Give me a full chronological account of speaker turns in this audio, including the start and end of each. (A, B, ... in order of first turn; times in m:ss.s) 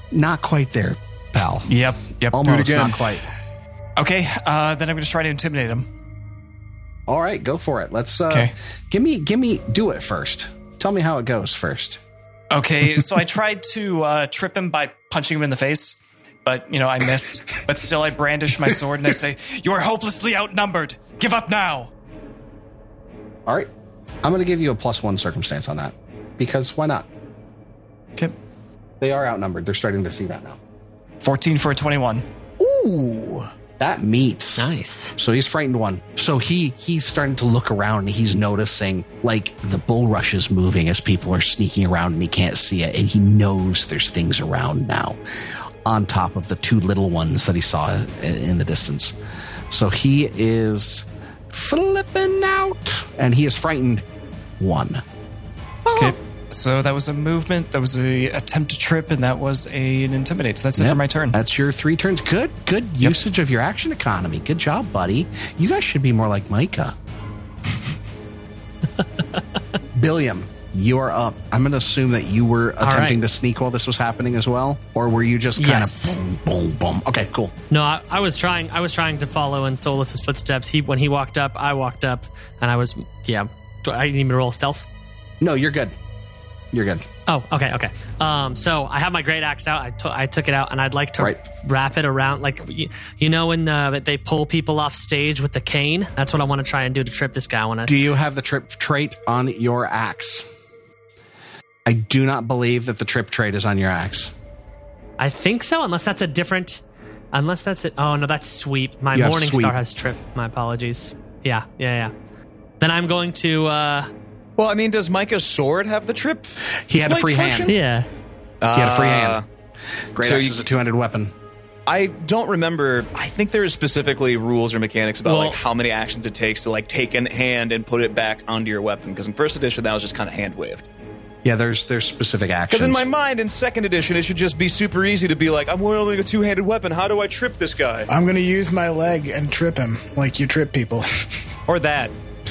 0:00.1-0:01.7 A
0:01.7-0:03.1 B
0:02.3-0:03.2 A
0:04.0-0:05.9 B
0:07.1-0:12.0 A
0:12.5-0:21.9 B
0:23.5-0:23.7 A
0:24.2-0:27.1 A
0:29.0-0:30.6 A
0:31.2-0:32.3 B
0:32.6-0:33.4 C
0:33.8-0:45.2 A
0:34.6-0:35.2 D
0:45.8-0:49.2 A
0:49.7-0:54.0 A
0:54.6-0:55.0 A
0:55.9-0:56.2 A
0:55.9-1:01.4 B
1:00.8-1:07.0 A
1:09.9-1:17.5 A
1:12.8-1:13.2 D
1:15.6-1:16.2 D
1:17.7-1:24.9 D
1:25.4-1:26.0 A
1:26.7-1:27.0 A
1:27.3-1:38.0 D
1:37.8-1:40.4 A
1:41.9-1:44.3 A
1:45.2-1:46.8 D
1:47.3-1:52.1 D
1:49.1-1:49.8 A
1:52.8-1:54.1 D
1:54.6-1:57.8 C
1:56.9-1:57.7 A
1:57.7-1:58.1 D
1:58.6-1:59.4 C
1:58.7-1:59.4 A
2:00.2-2:01.3 A
2:00.2-2:00.6 C
2:01.9-2:10.8 C
2:05.2-2:05.6 D
2:11.4-2:13.0 A
2:12.7-2:18.1 C
2:18.1-2:21.1 E
2:21.7-2:22.2 C